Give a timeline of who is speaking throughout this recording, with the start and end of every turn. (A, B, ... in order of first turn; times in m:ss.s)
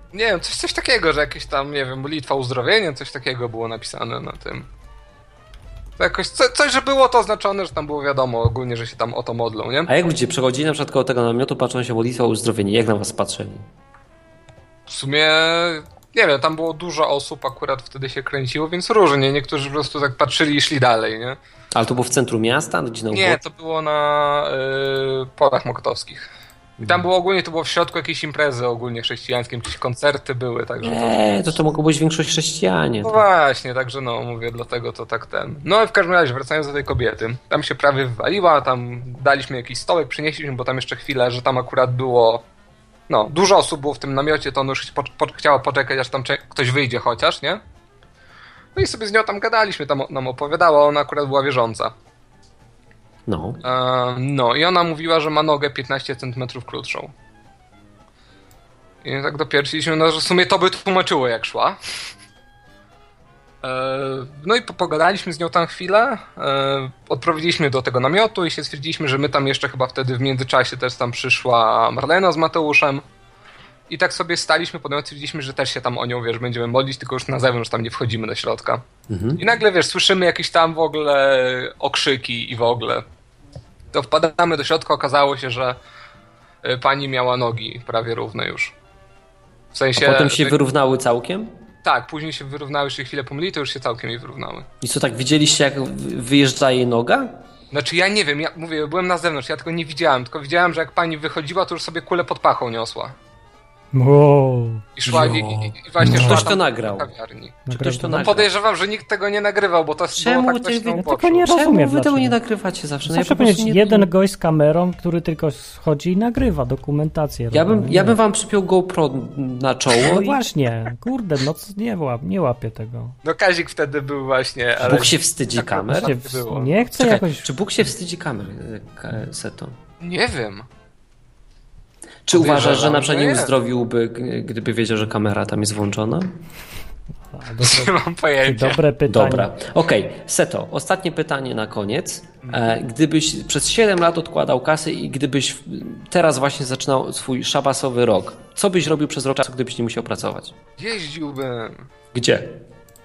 0:00.1-0:04.7 A
0:06.0-0:09.9 A
0:09.9-0:13.6 B
0:14.9-0:21.4 A
0:21.7-0:23.4 B
0:23.1-0:31.4 A
0:26.8-0:27.0 B
0:30.8-0:33.2 B
0:33.0-0:42.4 A
0:43.1-0:47.6 A
0:48.7-0:51.9 A
0:53.3-0:53.6 B
0:53.6-0:57.1 A
0:59.0-1:01.8 A
1:03.6-1:13.0 A
1:13.9-1:18.8 A
1:19.1-1:19.4 B
1:19.4-1:23.0 A
1:23.9-1:25.8 A
1:26.6-1:28.7 A
1:29.7-1:30.6 A
1:30.0-1:31.5 B
1:31.8-1:34.7 A
1:34.8-1:37.4 B
1:37.7-1:43.1 A
1:43.9-1:45.4 C
1:45.0-1:51.4 A
1:45.0-1:47.1 B
1:46.0-1:46.5 C
1:47.7-1:48.3 C
1:47.7-1:48.5 B
1:50.1-1:54.1 B
1:51.0-1:52.4 C
1:53.0-1:58.2 C
1:57.5-2:00.4 B
2:00.0-2:03.2 C
2:03.2-2:06.8 A
2:04.8-2:06.2 B
2:05.9-2:07.5 C
2:06.9-2:09.8 B
2:10.0-2:10.6 A
2:12.3-2:16.3 B
2:12.3-2:13.5 A
2:17.3-2:19.5 C
2:17.6-2:18.8 A
2:19.1-2:30.6 B
2:30.8-2:31.8 A
2:32.1-2:32.5 B